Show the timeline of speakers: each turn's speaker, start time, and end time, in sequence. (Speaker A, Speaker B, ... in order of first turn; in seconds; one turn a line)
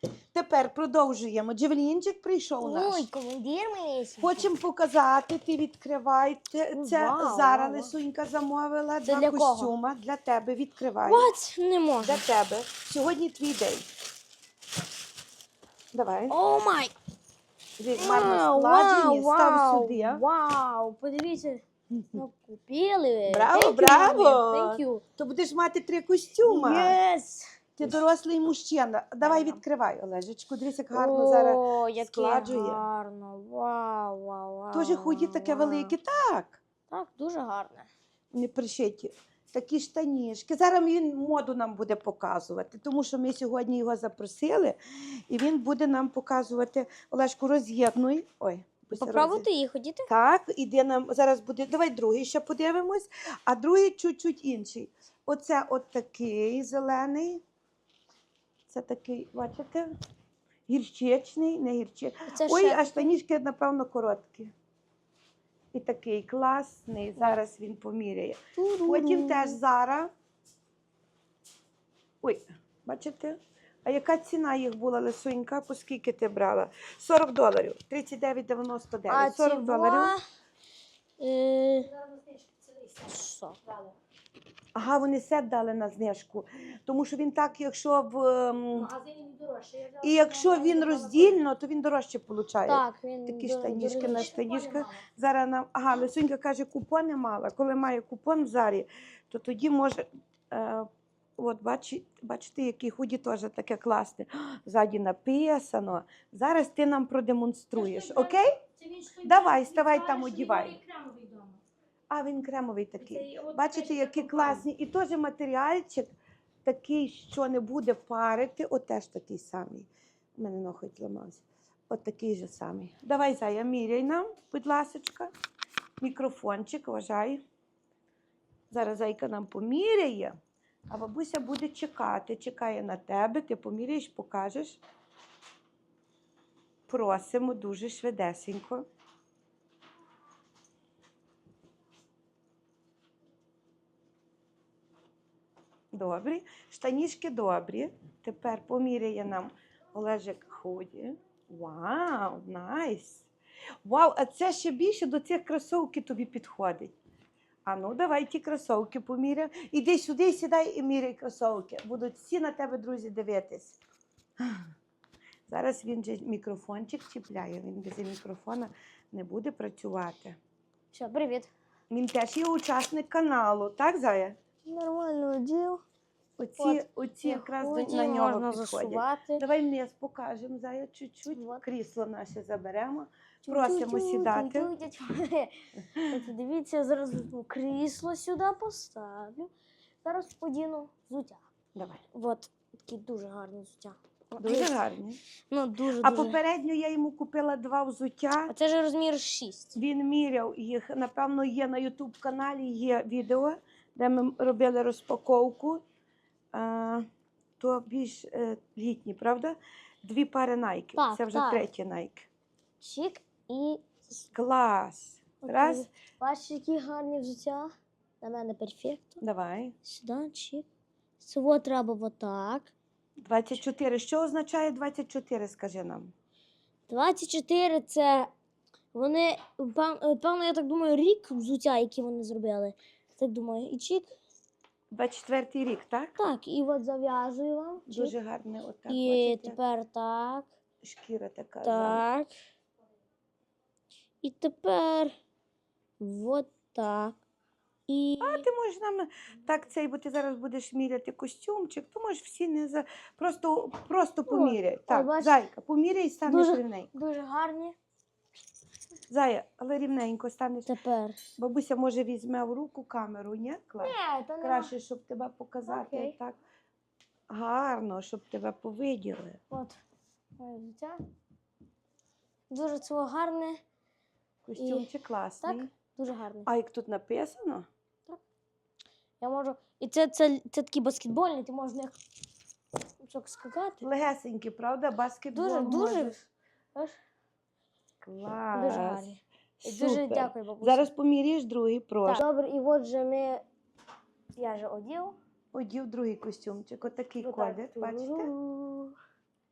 Speaker A: 0.3-3.1
Speaker B: 2.6-4.5
Speaker A: 4.2-11.2
Speaker B: 6.7-7.9
Speaker B: 9.0-9.7
Speaker B: 11.0-12.2
Speaker A: 12.0-13.9
Speaker A: 15.9-16.4
Speaker B: 16.3-16.9
Speaker A: 17.8-20.2
Speaker B: 17.9-25.0
Speaker A: 21.9-22.2
Speaker A: 23.3-27.0
Speaker B: 26.4-27.9
Speaker A: 27.8-32.8
Speaker B: 29.2-29.6
Speaker B: 30.9-35.9
Speaker A: 34.7-36.6
Speaker B: 36.9-37.9
Speaker A: 38.3-44.8
Speaker A: 45.3-49.5
Speaker B: 48.9-50.1
Speaker A: 50.1-57.4
Speaker A: 58.7-59.9
Speaker A: 60.7-64.5
Speaker B: 62.3-63.1
Speaker A: 65.7-70.1
Speaker B: 68.5-69.6
Speaker A: 72.2-80.1
Speaker B: 79.1-80.2
Speaker B: 81.2-81.9
Speaker C: 81.9-83.1
Speaker B: 83.0-83.6
Speaker A: 84.7-88.9
Speaker C: 88.7-91.3
Speaker A: 90.0-108.6
Speaker B: 92.7-94.4
Speaker C: 94.4-94.9
Speaker B: 107.8-109.4
Speaker C: 109.0-111.5
Speaker A: 109.2-110.8
Speaker B: 110.7-111.2
Speaker A: 112.1-116.1
Speaker B: 113.1-114.6
Speaker C: 113.2-114.2
Speaker A: 116.6-125.3
Speaker A: 126.0-127.4
Speaker A: 128.7-130.3
Speaker A: 130.9-134.8
Speaker A: 136.9-138.8
Speaker A: 145.9-153.3
Speaker A: 153.8-156.9
Speaker A: 157.7-163.8
Speaker A: 165.5-170.4
Speaker B: 170.9-171.5
Speaker A: 171.9-174.3
Speaker B: 174.7-175.8
Speaker A: 176.4-184.7
Speaker B: 176.6-179.4
Speaker B: 181.3-181.6
Speaker B: 183.4-185.5
Speaker A: 185.9-186.2
Speaker B: 186.1-189.5
Speaker B: 190.0-191.4
Speaker A: 191.7-192.0
Speaker B: 192.1-194.8
Speaker A: 194.4-195.2
Speaker B: 195.5-196.4
Speaker A: 196.0-198.5
Speaker B: 198.5-199.8
Speaker A: 199.8-205.8
Speaker A: 206.5-207.0
Speaker A: 207.6-212.3
Speaker B: 210.9-211.7
Speaker B: 212.8-214.2
Speaker A: 214.3-215.9
Speaker B: 215.4-219.2
Speaker A: 219.2-219.7
Speaker B: 219.8-220.7
Speaker B: 221.2-222.7
Speaker A: 223.2-226.1
Speaker B: 226.9-228.3
Speaker B: 228.9-234.1
Speaker A: 234.9-236.1
Speaker B: 236.2-238.1
Speaker A: 237.9-239.6
Speaker B: 238.9-240.5
Speaker A: 240.8-242.1
Speaker B: 241.6-242.3
Speaker B: 244.2-245.1
Speaker B: 246.0-247.2
Speaker B: 247.9-248.5
Speaker A: 248.2-256.9
Speaker B: 254.3-255.4
Speaker B: 256.3-257.8
Speaker A: 259.1-260.7
Speaker B: 260.7-261.2
Speaker A: 261.4-266.4
Speaker B: 263.8-264.7
Speaker B: 265.7-266.1
Speaker A: 267.3-269.4
Speaker B: 269.5-269.8
Speaker B: 270.4-271.0
Speaker B: 272.5-273.6
Speaker A: 274.4-275.7
Speaker B: 274.6-274.9
Speaker B: 275.4-276.5
Speaker A: 276.4-277.7
Speaker B: 279.2-282.0
Speaker B: 283.0-283.9
Speaker A: 283.8-286.2
Speaker B: 285.3-287.0
Speaker A: 288.0-289.1
Speaker B: 288.5-290.9
Speaker A: 289.6-292.2
Speaker B: 292.0-293.4
Speaker B: 294.4-295.1
Speaker A: 295.5-298.9
Speaker B: 297.2-298.3